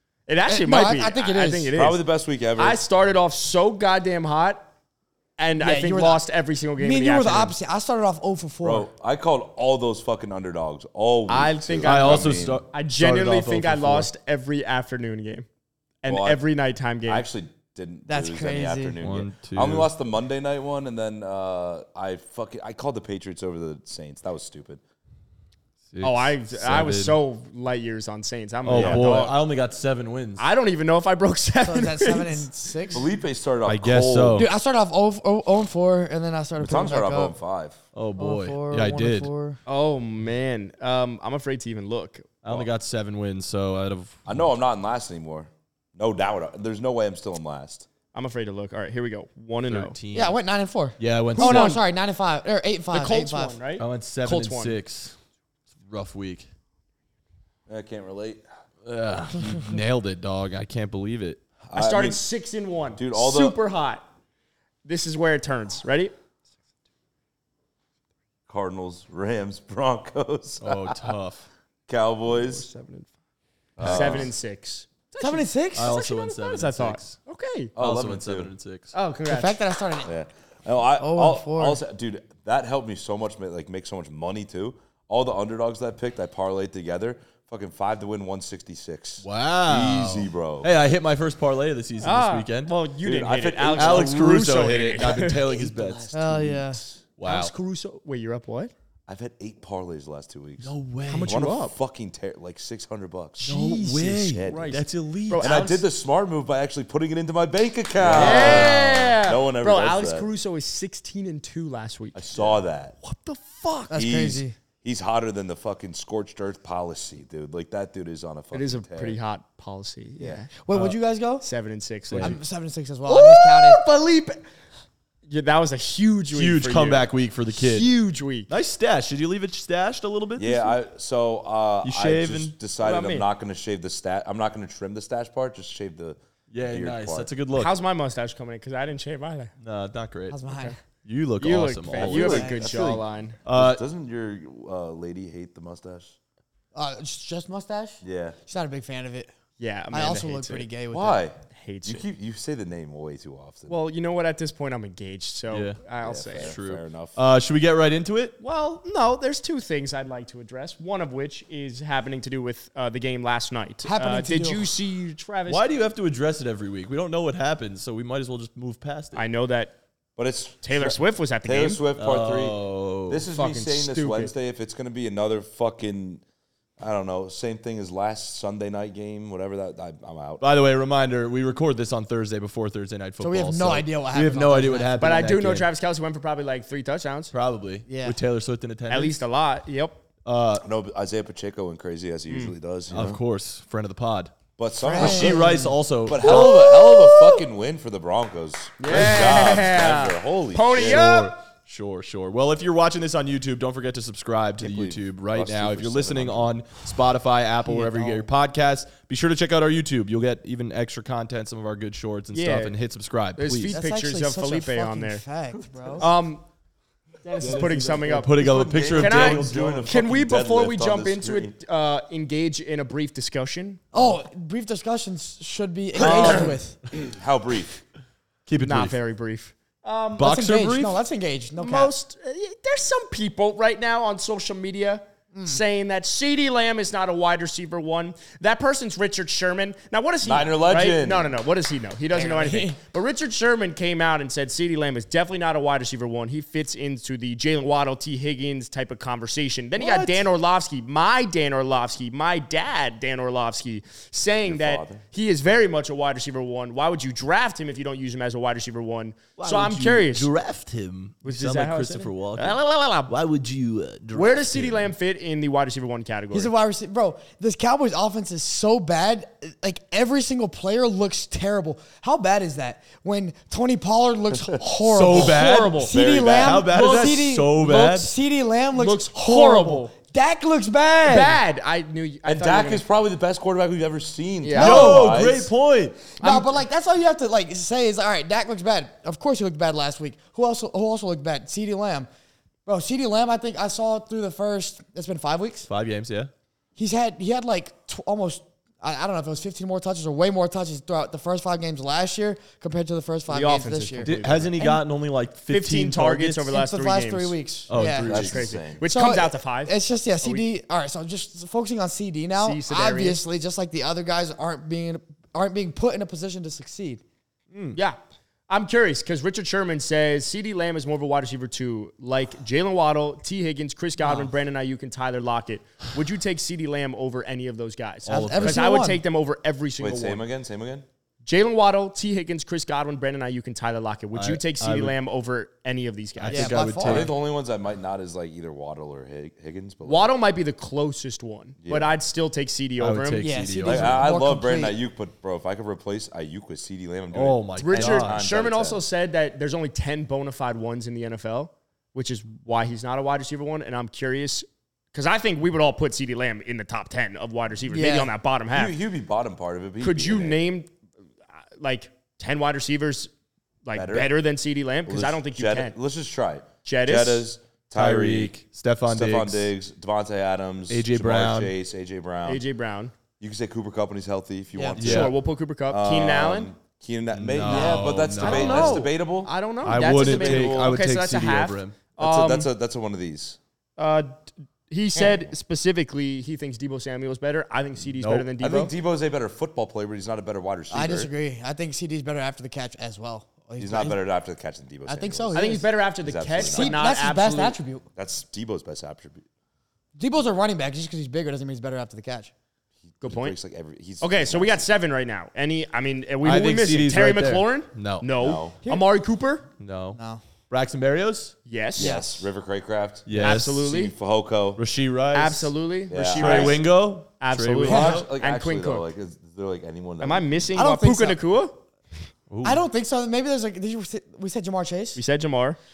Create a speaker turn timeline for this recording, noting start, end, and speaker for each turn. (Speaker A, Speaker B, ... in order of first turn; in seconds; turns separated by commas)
Speaker A: 0.3-2.0, Speaker B: 0.5-1.7, Speaker C: 1.7-2.8, Speaker A: 2.6-4.7, Speaker A: 5.4-7.5, Speaker B: 5.6-6.2, Speaker B: 6.8-8.9, Speaker C: 8.6-12.6, Speaker A: 11.3-15.5, Speaker D: 11.8-14.1, Speaker A: 16.0-17.3, Speaker C: 16.1-16.4, Speaker C: 17.1-24.8, Speaker B: 18.1-19.0, Speaker D: 19.0-19.9, Speaker D: 25.9-27.2, Speaker A: 26.0-29.4, Speaker D: 28.6-30.4, Speaker C: 28.7-29.1, Speaker A: 30.4-33.0, Speaker B: 31.6-33.1, Speaker C: 32.9-34.5, Speaker D: 33.7-34.5, Speaker B: 34.3-37.3, Speaker C: 36.6-37.8, Speaker D: 37.9-39.3, Speaker B: 38.2-39.6, Speaker A: 39.7-42.4, Speaker D: 42.4-44.3, Speaker C: 44.2-47.9, Speaker A: 48.1-50.0, Speaker D: 49.7-50.3, Speaker B: 50.1-53.6, Speaker D: 51.0-51.8, Speaker A: 51.4-51.8, Speaker A: 52.9-54.8, Speaker D: 53.8-55.2, Speaker D: 55.9-56.5, Speaker C: 57.7-58.5, Speaker D: 58.8-61.4, Speaker C: 61.7-62.2, Speaker A: 61.7-64.0, Speaker C: 63.0-63.6, Speaker A: 64.8-66.1, Speaker C: 68.5-71.1, Speaker D: 70.6-71.5, Speaker C: 71.9-72.7, Speaker A: 72.2-73.1, Speaker C: 73.8-74.3, Speaker A: 73.8-77.7, Speaker B: 75.2-75.9, Speaker D: 75.8-77.2, Speaker C: 77.8-78.5, Speaker D: 77.8-78.9, Speaker A: 78.9-79.6, Speaker B: 79.3-80.1, Speaker C: 80.0-90.7, Speaker B: 81.0-81.8, Speaker D: 89.2-92.7, Speaker A: 92.0-95.5, Speaker C: 93.0-97.0, Speaker D: 93.7-96.0, Speaker B: 96.1-96.8, Speaker D: 97.2-97.5, Speaker A: 97.2-98.7, Speaker C: 99.1-104.8, Speaker D: 100.6-101.3, Speaker A: 101.1-101.8, Speaker D: 103.4-105.4, Speaker A: 103.5-105.8, Speaker C: 105.4-110.2, Speaker D: 108.0-108.8, Speaker A: 108.1-114.0, Speaker C: 112.2-112.9, Speaker B: 113.9-114.6, Speaker C: 113.9-119.2, Speaker A: 118.5-120.6, Speaker B: 120.6-121.5, Speaker A: 121.4-122.4, Speaker D: 122.1-122.4, Speaker B: 122.2-123.8, Speaker A: 123.1-124.4, Speaker A: 125.3-128.5, Speaker D: 126.3-127.9, Speaker D: 128.5-130.8, Speaker C: 130.4-137.3, Speaker D: 131.8-132.6, Speaker A: 132.8-133.2, Speaker D: 136.5-137.7, Speaker A: 137.5-139.5, Speaker D: 139.6-140.4, Speaker B: 140.3-140.8, Speaker D: 141.1-142.2, Speaker A: 141.4-143.4, Speaker C: 141.9-146.2, Speaker B: 142.1-142.7, Speaker D: 143.4-143.8, Speaker B: 146.7-149.3, Speaker C: 148.0-148.4, Speaker A: 149.6-150.7, Speaker B: 149.9-151.2, Speaker C: 150.9-153.8, Speaker A: 151.5-152.1, Speaker A: 153.7-156.5, Speaker D: 155.5-155.8, Speaker C: 156.0-157.2, Speaker D: 156.4-158.3, Speaker A: 158.4-165.6, Speaker B: 163.8-164.7, Speaker D: 165.5-169.2, Speaker A: 169.2-169.8, Speaker C: 170.2-176.2, Speaker A: 170.6-171.8, Speaker D: 172.0-173.2, Speaker A: 173.3-174.3, Speaker C: 176.8-180.4, Speaker D: 180.4-185.7, Speaker B: 183.2-185.1, Speaker A: 185.0-187.3, Speaker D: 187.3-189.2, Speaker B: 187.9-188.2, Speaker A: 188.9-190.0, Speaker D: 190.2-190.7, Speaker C: 190.6-193.2, Speaker A: 192.3-192.5, Speaker D: 192.9-194.3, Speaker C: 194.6-201.1, Speaker B: 194.8-195.8, Speaker D: 194.9-196.6, Speaker A: 196.2-197.3, Speaker A: 198.8-201.3, Speaker D: 200.8-213.8, Speaker C: 204.6-206.5, Speaker A: 207.8-208.2, Speaker A: 212.3-212.8, Speaker A: 213.4-215.2, Speaker B: 213.7-216.1, Speaker C: 215.5-216.1, Speaker A: 216.0-216.4, Speaker A: 217.2-223.9, Speaker C: 217.3-221.5, Speaker D: 217.4-219.9, Speaker B: 223.9-226.8, Speaker C: 226.0-227.8, Speaker D: 228.4-228.9, Speaker A: 228.6-230.3, Speaker D: 230.2-231.0, Speaker B: 230.2-231.9, Speaker A: 231.6-260.3, Speaker B: 235.3-235.6, Speaker C: 240.2-241.3, Speaker B: 242.1-242.8, Speaker B: 249.8-250.2, Speaker C: 254.4-255.0, Speaker D: 259.4-264.9, Speaker A: 261.2-263.1, Speaker A: 264.1-266.5, Speaker B: 266.3-281.4, Speaker D: 274.9-275.8, Speaker A: 275.1-276.0, Speaker C: 275.9-276.8, Speaker D: 276.4-278.1, Speaker A: 278.8-279.9, Speaker A: 281.0-282.8, Speaker C: 282.2-285.5, Speaker A: 284.4-285.0, Speaker D: 284.5-286.0, Speaker B: 284.6-285.2, Speaker B: 286.2-292.1, Speaker A: 286.2-286.5, Speaker B: 292.7-295.7, Speaker D: 295.7-296.3, Speaker B: 296.8-304.8, Speaker A: 303.3-304.7, Speaker D: 304.0-306.5, Speaker A: 305.5-307.4, Speaker B: 306.5-308.1, Speaker D: 307.7-308.4, Speaker A: 308.0-310.5, Speaker C: 308.1-308.8, Speaker B: 308.8-317.0, Speaker A: 312.4-313.2, Speaker D: 317.5-317.8, Speaker A: 318.5-330.2, Speaker B: 324.0-324.3, Speaker D: 328.1-328.6, Speaker B: 328.1-329.0, Speaker C: 329.8-330.9, Speaker A: 331.2-336.6, Speaker D: 334.1-334.9, Speaker D: 336.2-337.1, Speaker B: 336.3-337.1, Speaker C: 336.8-340.1, Speaker A: 339.9-343.3, Speaker C: 341.6-341.9, Speaker D: 342.8-344.1, Speaker B: 343.2-344.8, Speaker C: 343.6-348.8, Speaker D: 347.1-348.2, Speaker A: 347.6-358.8, Speaker B: 357.7-358.1, Speaker C: 358.5-360.4, Speaker A: 359.8-360.7, Speaker A: 361.4-363.1, Speaker A: 363.6-365.8, Speaker C: 363.7-364.1, Speaker C: 364.9-372.4, Speaker A: 366.6-367.2, Speaker D: 367.7-369.5, Speaker D: 370.7-371.5, Speaker A: 372.2-372.9, Speaker C: 373.2-379.3, Speaker D: 374.8-375.1, Speaker A: 374.8-376.5, Speaker D: 377.1-378.9, Speaker A: 377.4-382.5, Speaker D: 379.6-381.8, Speaker C: 379.9-380.8, Speaker C: 382.0-383.4, Speaker A: 383.8-388.7, Speaker C: 384.9-385.3, Speaker D: 388.0-388.3, Speaker C: 388.4-391.1, Speaker B: 390.7-394.0, Speaker C: 393.6-397.0, Speaker B: 394.9-395.7, Speaker A: 395.3-397.6, Speaker B: 396.4-397.9, Speaker C: 397.9-399.2, Speaker B: 399.9-402.3, Speaker C: 402.9-404.7, Speaker A: 403.0-403.4, Speaker A: 404.0-409.5, Speaker D: 406.2-408.1, Speaker C: 408.2-408.6, Speaker D: 409.6-410.0, Speaker B: 409.9-410.2, Speaker D: 410.5-411.3, Speaker A: 411.4-412.1, Speaker C: 411.8-414.6, Speaker B: 411.8-412.2, Speaker D: 413.1-413.6, Speaker A: 413.2-413.9, Speaker D: 414.6-415.5, Speaker A: 415.1-416.7, Speaker C: 415.9-416.6, Speaker D: 416.1-418.0, Speaker A: 417.2-418.9, Speaker C: 417.7-420.4, Speaker B: 417.7-418.0, Speaker A: 420.0-421.6, Speaker B: 420.5-421.2, Speaker D: 422.3-422.6, Speaker B: 422.4-425.0, Speaker A: 424.9-425.6